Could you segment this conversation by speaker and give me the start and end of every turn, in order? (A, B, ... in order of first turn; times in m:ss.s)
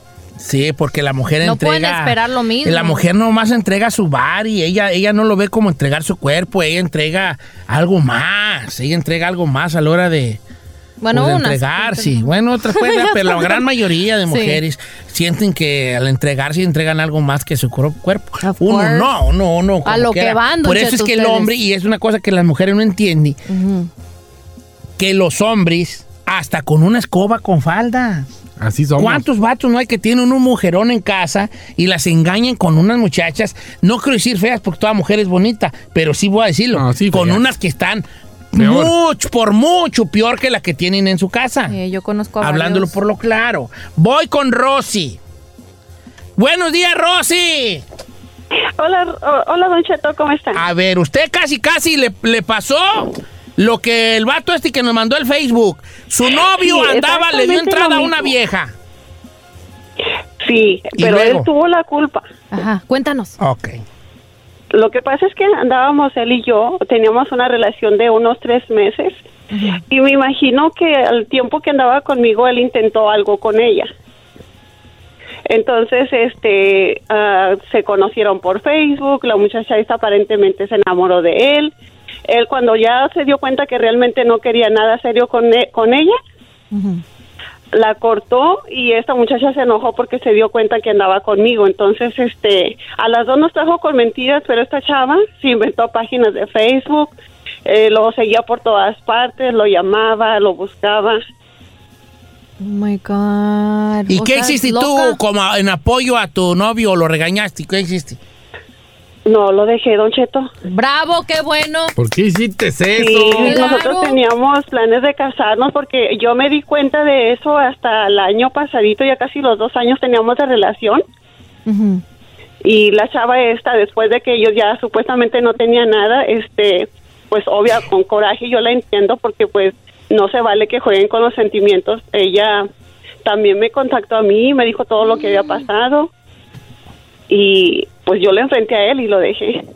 0:00.4-0:10.4 A
0:01.4-0:03.0 B
0:11.0-0:13.6 B
0:11.1-0:23.4 A
0:14.3-0:14.6 B
0:18.4-0:19.1 B
0:19.8-0:21.5 B
0:23.5-0:23.9 B
0:25.0-0:28.3 A
0:28.6-0:29.3 C
0:29.0-0:41.8 A
0:36.7-0:37.4 C
0:38.6-0:38.9 C
0:41.7-0:43.0 B
0:42.4-0:45.2 A
0:46.4-0:47.8 A
0:48.8-0:50.6 D
0:50.5-0:58.7 A
0:56.6-0:58.3 D
1:00.4-1:02.3 D
1:01.0-1:01.5 A
1:02.5-1:03.4 B
1:03.4-1:03.8 A
1:04.7-1:09.2 D
1:09.5-1:09.8 B
1:09.9-1:13.9 D
1:15.5-1:21.7 D
1:22.3-1:26.2 D
1:26.7-1:27.0 B
1:27.7-1:37.1 D
1:37.6-1:41.2 D
1:42.6-1:45.2 B
1:44.1-1:48.2 A
1:49.3-1:50.5 D
1:50.7-1:51.9 B
1:52.0-1:53.8 C
1:52.9-2:01.0 D
1:53.4-1:54.2 B
2:01.6-2:02.0 B
2:02.6-2:12.7 D
2:13.2-2:16.1 D
2:17.3-2:19.6 D